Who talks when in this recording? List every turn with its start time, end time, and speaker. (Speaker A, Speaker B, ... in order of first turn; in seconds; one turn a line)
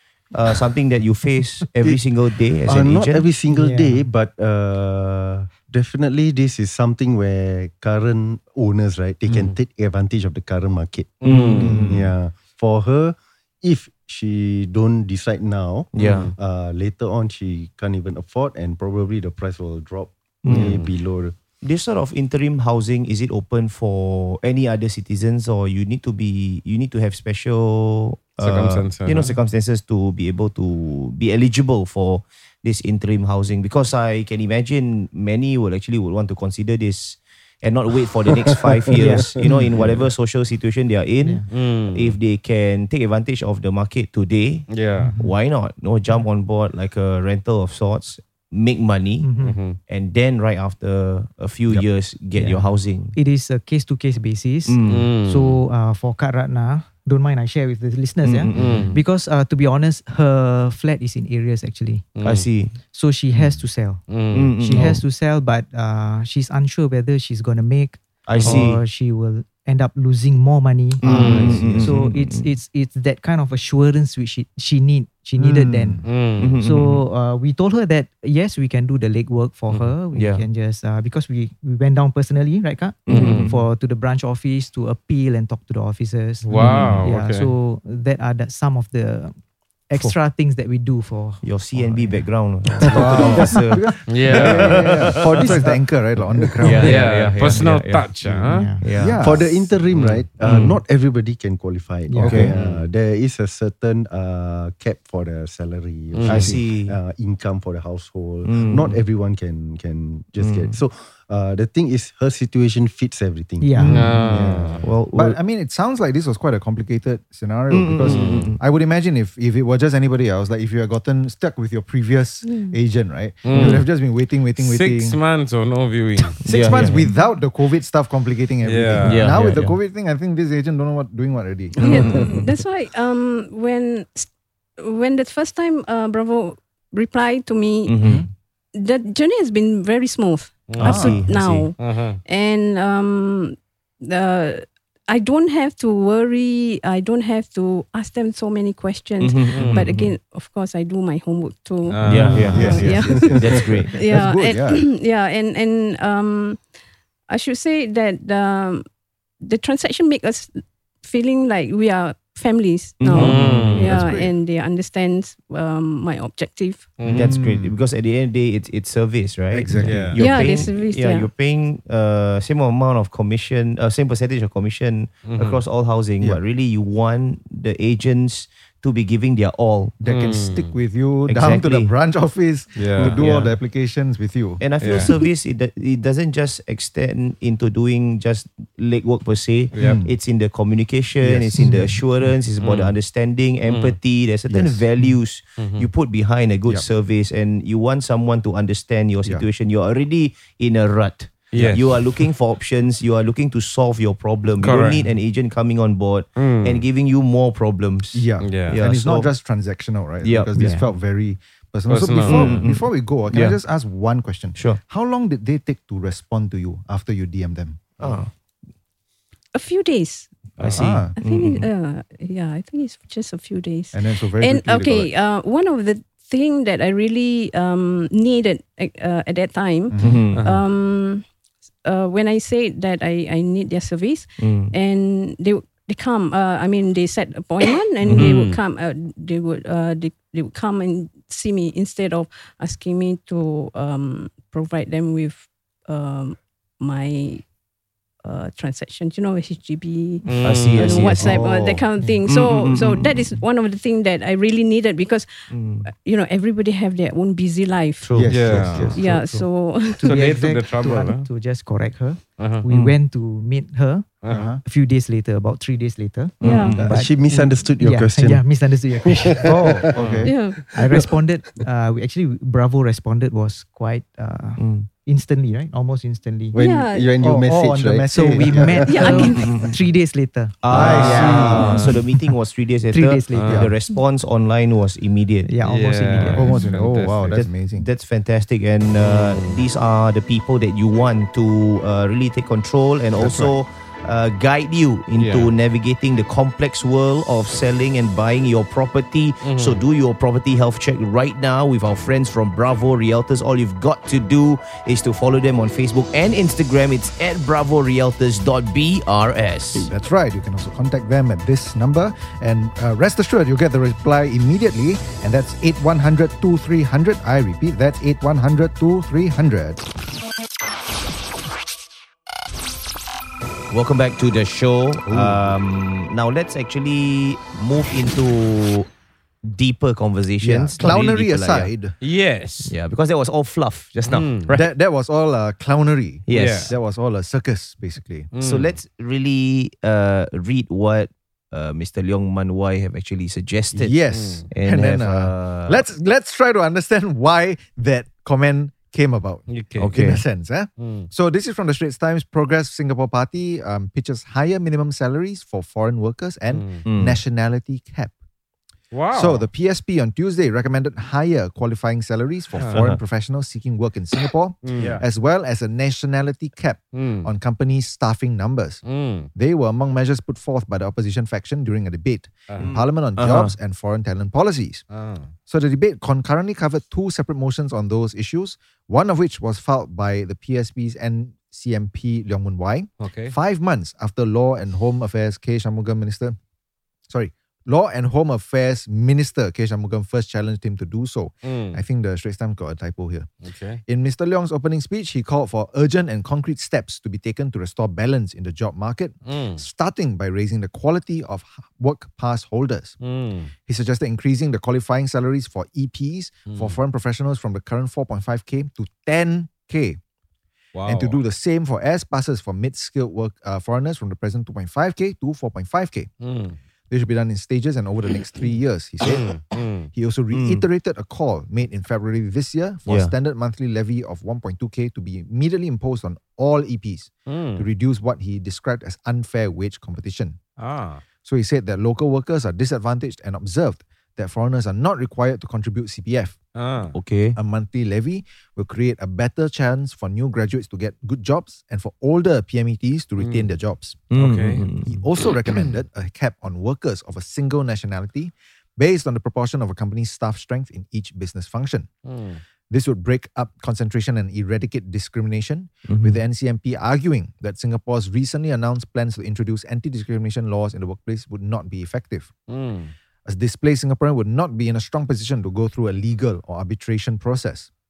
Speaker A: 0.3-3.3
Speaker B: 2.6-21.4
Speaker C: 3.5-4.0
Speaker D: 11.2-11.9
Speaker A: 11.2-12.0
Speaker E: 11.6-12.1
Speaker A: 15.9-16.3
Speaker D: 16.0-16.3
Speaker A: 20.4-20.9
Speaker D: 20.5-20.9
Speaker A: 21.6-49.3
Speaker D: 28.4-29.3
Speaker C: 38.9-39.4
Speaker B: 39.0-40.1
Speaker D: 41.5-42.2
Speaker D: 44.7-45.1
Speaker C: 45.0-45.3
Speaker C: 49.2-49.6
Speaker D: 49.4-49.8
Speaker A: 49.9-53.1
Speaker C: 52.4-62.0
Speaker A: 54.6-55.1
Speaker D: 54.8-55.6
Speaker A: 58.2-59.0
Speaker D: 58.5-59.0
Speaker D: 62.1-62.5
Speaker A: 62.2-62.8
Speaker C: 62.9-76.1
Speaker D: 64.1-64.5
Speaker A: 64.3-65.0
Speaker A: 68.2-68.8
Speaker A: 71.0-72.5
Speaker E: 71.0-72.0
Speaker D: 71.1-71.7
Speaker A: 75.4-77.0
Speaker E: 75.7-76.1
Speaker D: 76.0-76.6
Speaker C: 76.6-89.3
Speaker A: 80.1-80.4
Speaker A: 83.0-83.6
Speaker D: 83.1-83.5
Speaker D: 86.5-87.5
Speaker A: 86.5-87.1
Speaker C: 89.9-92.3
Speaker A: 91.4-95.5
Speaker E: 92.8-97.2
Speaker C: 93.0-93.6
Speaker D: 94.1-94.9
Speaker B: 94.7-95.7
Speaker C: 96.6-97.7
Speaker A: 96.6-100.8
Speaker D: 96.8-98.7
Speaker C: 98.5-98.8
Speaker E: 99.0-99.7
Speaker B: 99.2-115.0
Speaker C: 102.1-102.4
Speaker A: 102.2-102.7
Speaker D: 102.5-102.8
Speaker D: 106.1-106.5
Speaker A: 106.2-107.0
Speaker A: 108.4-109.0
Speaker A: 110.4-110.8
Speaker C: 113.6-114.1
Speaker E: 113.8-125.2
Speaker D: 113.9-114.8
Speaker A: 114.8-115.4
Speaker A: 117.7-118.6
Speaker D: 118.0-118.5
Speaker F: 122.4-122.8
Speaker D: 123.4-123.8
Speaker A: 123.5-123.8
Speaker D: 124.6-126.4
Speaker A: 126.4-127.1
Speaker E: 126.4-132.3
Speaker D: 128.6-129.4
Speaker A: 129.0-129.8
Speaker F: 131.8-138.1
Speaker A: 131.8-132.5
Speaker A: 137.8-138.2
Speaker E: 138.0-138.3
Speaker F: 138.7-156.6
Speaker D: 140.7-141.1
Speaker A: 140.8-141.7
Speaker E: 140.8-141.2
Speaker D: 141.8-142.2
Speaker A: 149.2-150.1
Speaker D: 149.5-149.9
Speaker D: 151.9-152.8
Speaker A: 152.0-153.9
Speaker E: 152.5-154.8
Speaker F: 157.3-158.8
Speaker F: 159.4-167.0
Speaker A: 163.0-164.1
Speaker D: 163.1-163.9
Speaker E: 163.7-164.3
Speaker D: 167.0-167.3
Speaker E: 167.0-167.7
Speaker A: 167.0-179.9
Speaker E: 169.5-170.2
Speaker D: 169.8-170.5
Speaker F: 170.2-171.3
Speaker D: 175.2-175.6
Speaker E: 180.0-185.0
Speaker D: 180.0-180.7
Speaker A: 181.3-181.9
Speaker D: 182.8-183.2
Speaker A: 183.0-183.5
Speaker A: 184.6-209.3
Speaker D: 184.8-185.1
Speaker D: 189.7-190.0
Speaker E: 189.8-190.1
Speaker E: 191.2-192.0
Speaker D: 192.6-193.0
Speaker D: 193.6-194.0
Speaker E: 194.5-194.8
Speaker D: 195.6-195.9
Speaker D: 201.5-202.3
Speaker D: 204.6-205.1
Speaker D: 206.4-206.8
Speaker E: 208.1-218.2
Speaker D: 208.4-208.8
Speaker A: 210.2-210.8
Speaker C: 210.5-210.9
Speaker D: 211.9-212.6
Speaker A: 212.2-213.6
Speaker A: 218.0-218.3
Speaker F: 219.5-220.3
Speaker A: 220.6-221.7
Speaker D: 220.6-220.9
Speaker E: 220.7-221.1
Speaker F: 221.1-231.2
Speaker E: 223.9-225.1
Speaker E: 229.9-230.2
Speaker A: 230.0-230.6
Speaker F: 231.8-247.4
Speaker A: 234.4-234.7
Speaker A: 238.0-238.4
Speaker D: 238.1-238.6
Speaker F: 248.2-260.2
Speaker D: 250.2-251.3
Speaker A: 250.4-253.4
Speaker A: 255.5-255.9
Speaker A: 258.0-258.8
Speaker B: 258.1-258.8
Speaker E: 258.2-258.9
Speaker D: 258.3-258.9
Speaker C: 258.9-269.7
Speaker D: 260.0-261.3
Speaker D: 262.4-262.6
Speaker A: 262.7-262.9
Speaker D: 264.2-264.5
Speaker E: 264.3-264.6
Speaker A: 266.4-266.9
Speaker F: 266.4-266.9
Speaker B: 266.8-268.5
Speaker B: 269.0-269.9
Speaker E: 269.4-270.3
Speaker D: 269.9-270.2
Speaker F: 270.2-270.6
Speaker C: 270.6-276.6
Speaker B: 270.6-271.1
Speaker A: 274.6-274.9
Speaker B: 276.5-279.0
Speaker F: 276.6-277.2
Speaker E: 277.2-278.8
Speaker C: 278.1-282.0
Speaker F: 278.9-279.6
Speaker A: 280.6-285.5
Speaker E: 280.7-281.9
Speaker D: 280.8-281.7
Speaker C: 282.9-283.6
Speaker D: 283.3-283.7
Speaker E: 283.4-283.7
Speaker C: 285.4-286.5
Speaker D: 285.6-287.4
Speaker E: 286.2-287.9
Speaker A: 287.7-309.9
Speaker D: 289.0-289.6
Speaker E: 293.1-293.5
Speaker D: 295.1-295.5
Speaker D: 299.4-299.8
Speaker E: 309.8-319.8
Speaker A: 323.7-328.9
Speaker E: 325.0-325.6
Speaker A: 329.4-331.7
Speaker E: 330.4-331.9
Speaker D: 332.0-332.7
Speaker A: 332.6-334.6
Speaker D: 334.0-334.5
Speaker E: 334.5-338.3
Speaker A: 336.3-336.8
Speaker D: 336.3-336.7
Speaker D: 338.3-338.7
Speaker A: 338.4-343.9
Speaker E: 343.7-358.1
Speaker D: 344.1-344.5
Speaker A: 344.5-345.8
Speaker D: 349.5-349.9
Speaker A: 349.8-350.2
Speaker D: 350.8-351.1
Speaker D: 356.5-356.8
Speaker A: 356.8-357.2
Speaker D: 358.9-359.5
Speaker E: 359.1-368.8
Speaker A: 362.7-363.0
Speaker D: 364.6-365.0
Speaker D: 366.9-367.3
Speaker D: 368.8-369.3
Speaker E: 369.3-374.8
Speaker D: 372.5-372.8
Speaker A: 372.6-373.5
Speaker D: 374.9-375.3
Speaker E: 375.5-386.4
Speaker D: 383.0-383.3
Speaker E: 387.1-393.3
Speaker D: 391.4-391.8
Speaker D: 393.4-393.8
Speaker E: 393.9-402.9
Speaker D: 399.2-399.6
Speaker D: 403.0-403.5
Speaker E: 403.6-410.0
Speaker D: 406.5-406.8
Speaker D: 410.7-411.2
Speaker E: 410.9-416.1
Speaker D: 416.2-416.6
Speaker E: 416.9-419.4
Speaker D: 419.0-419.9
Speaker E: 419.9-430.4
Speaker A: 420.3-420.6
Speaker A: 422.9-423.1
Speaker D: 427.3-427.6
Speaker D: 430.6-431.0
Speaker E: 431.2-436.4
Speaker D: 436.5-436.9
Speaker A: 436.9-437.4
Speaker E: 437.4-444.0
Speaker D: 443.2-443.5
Speaker A: 444.1-445.0
Speaker D: 444.1-444.6
Speaker E: 444.6-451.9
Speaker D: 452.0-452.4
Speaker E: 452.7-462.3
Speaker A: 455.9-456.2
Speaker D: 462.5-462.9
Speaker E: 463.2-467.7